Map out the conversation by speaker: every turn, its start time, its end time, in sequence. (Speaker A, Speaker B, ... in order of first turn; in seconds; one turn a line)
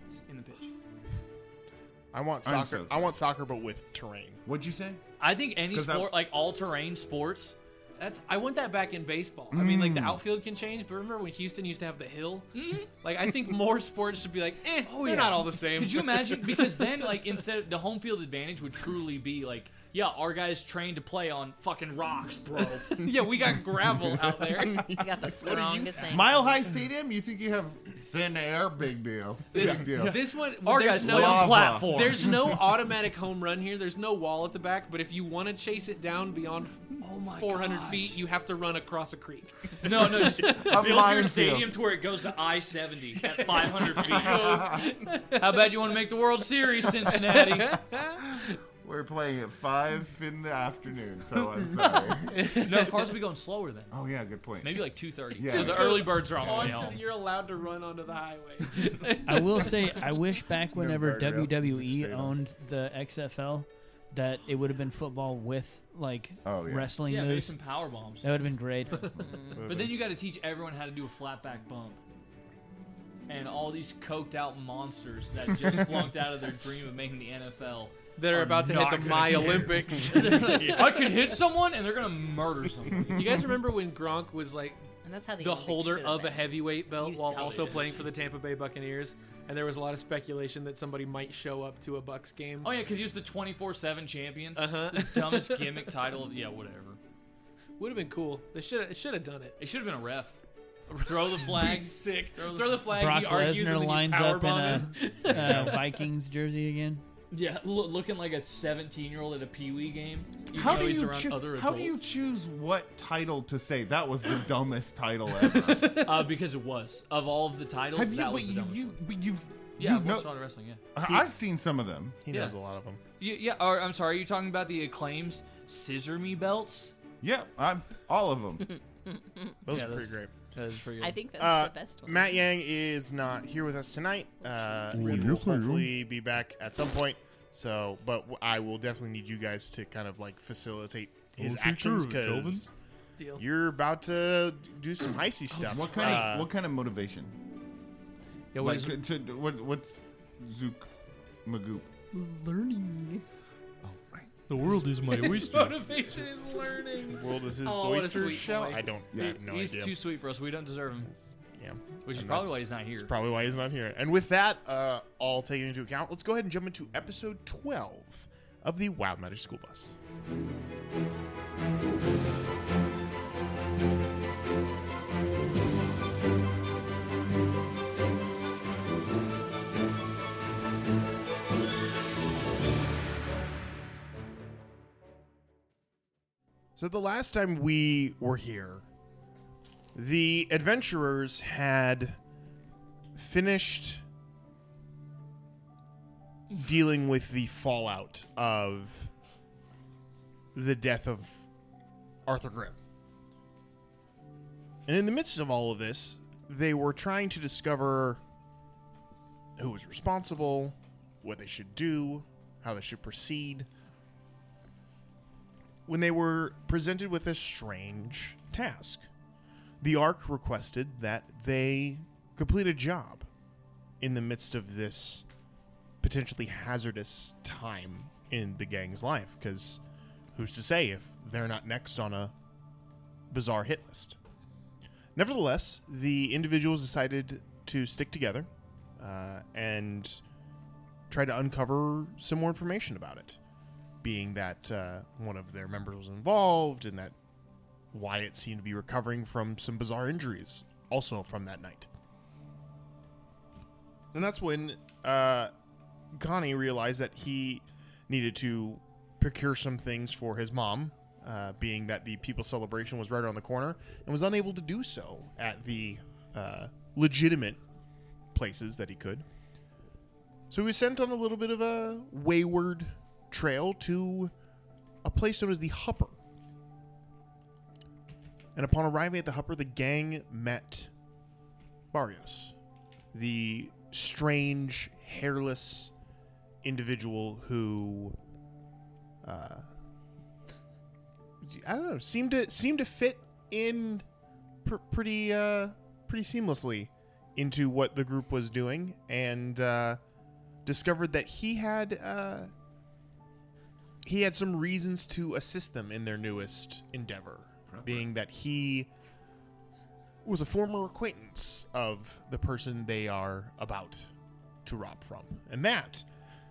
Speaker A: 0.2-0.7
Speaker B: 2.1-4.4
Speaker C: 2.4-3.2
Speaker C: 4.4-5.0
Speaker A: 5.2-7.5
Speaker C: 5.7-6.2
Speaker D: 8.0-17.2
Speaker C: 9.5-10.2
Speaker A: 12.5-12.9
Speaker A: 14.8-23.0
Speaker D: 22.9-24.9
Speaker B: 24.8-26.1
Speaker E: 24.9-26.4
Speaker C: 26.1-30.1
Speaker D: 29.5-40.7
Speaker A: 29.5-32.5
Speaker C: 30.9-32.2
Speaker A: 37.0-38.2
Speaker A: 39.8-47.8
Speaker C: 40.4-41.7
Speaker D: 43.2-45.7
Speaker C: 44.0-44.8
Speaker D: 47.1-48.5
Speaker C: 48.8-52.3
Speaker D: 52.3-53.2
Speaker A: 52.5-53.9
Speaker C: 53.9-56.9
Speaker A: 54.6-57.0
Speaker D: 55.4-60.0
Speaker F: 59.2-67.5
Speaker C: 60.7-62.4
Speaker C: 66.4-67.0
Speaker A: 67.1-68.2
Speaker F: 68.2-69.1
Speaker E: 69.2-69.6
Speaker C: 69.6-70.0
Speaker A: 69.6-72.0
Speaker A: 73.3-83.4
Speaker D: 78.2-81.0
Speaker B: 80.4-80.8
Speaker D: 83.1-84.8
Speaker E: 85.0-88.0
Speaker D: 85.4-92.7
Speaker A: 87.3-88.1
Speaker A: 92.6-97.0
Speaker D: 94.5-95.9
Speaker D: 97.8-99.5
Speaker A: 99.6-100.4
Speaker A: 100.9-103.0
Speaker D: 101.0-105.9
Speaker F: 102.9-107.0
Speaker A: 105.3-105.7
Speaker A: 107.3-112.0
Speaker C: 110.5-116.1
Speaker A: 115.8-119.0
Speaker C: 117.9-120.3
Speaker A: 119.8-120.8
Speaker C: 120.9-122.2
Speaker B: 121.0-121.3
Speaker B: 122.2-123.0
Speaker A: 123.2-126.9
Speaker C: 127.2-128.7
Speaker E: 129.1-129.6
Speaker B: 129.7-130.3
Speaker A: 129.7-131.2
Speaker E: 131.0-132.4
Speaker B: 131.4-142.7
Speaker G: 134.9-135.9
Speaker G: 141.3-142.7
Speaker D: 143.2-143.4
Speaker B: 143.4-146.5
Speaker C: 145.6-147.3
Speaker A: 148.5-149.0
Speaker C: 148.6-150.9
Speaker C: 151.4-153.2
Speaker C: 153.8-154.9
Speaker G: 154.5-156.0
Speaker D: 155.0-158.8
Speaker B: 157.2-159.9
Speaker C: 159.1-159.4
Speaker A: 159.2-161.1
Speaker B: 161.5-169.9
Speaker A: 162.0-163.1
Speaker B: 186.8-188.8
Speaker B: 189.9-192.2
Speaker B: 193.2-194.0
Speaker B: 196.5-199.1
Speaker B: 200.5-201.4
Speaker B: 202.2-202.8
Speaker B: 204.8-208.2
Speaker B: 209.6-213.7
Speaker B: 215.9-219.1
Speaker B: 219.8-223.3
Speaker B: 224.0-225.2
Speaker B: 226.0-229.8
Speaker B: 230.3-232.3
Speaker B: 233.3-234.2
Speaker B: 235.1-238.5
Speaker B: 239.0-240.2
Speaker B: 241.1-243.4
Speaker B: 244.0-247.1
Speaker B: 247.9-251.9
Speaker B: 254.1-255.5
Speaker B: 256.1-267.6
Speaker B: 268.3-269.2
Speaker B: 270.5-274.3
Speaker B: 275.0-276.1
Speaker B: 278.5-280.9
Speaker B: 281.9-282.5
Speaker B: 283.1-285.9
Speaker B: 286.6-288.1
Speaker B: 289.2-289.6
Speaker B: 291.4-294.0
Speaker B: 294.6-300.0
Speaker B: 300.6-302.5
Speaker B: 304.0-308.9
Speaker C: 307.7-308.1
Speaker B: 310.2-314.1
Speaker B: 314.6-316.0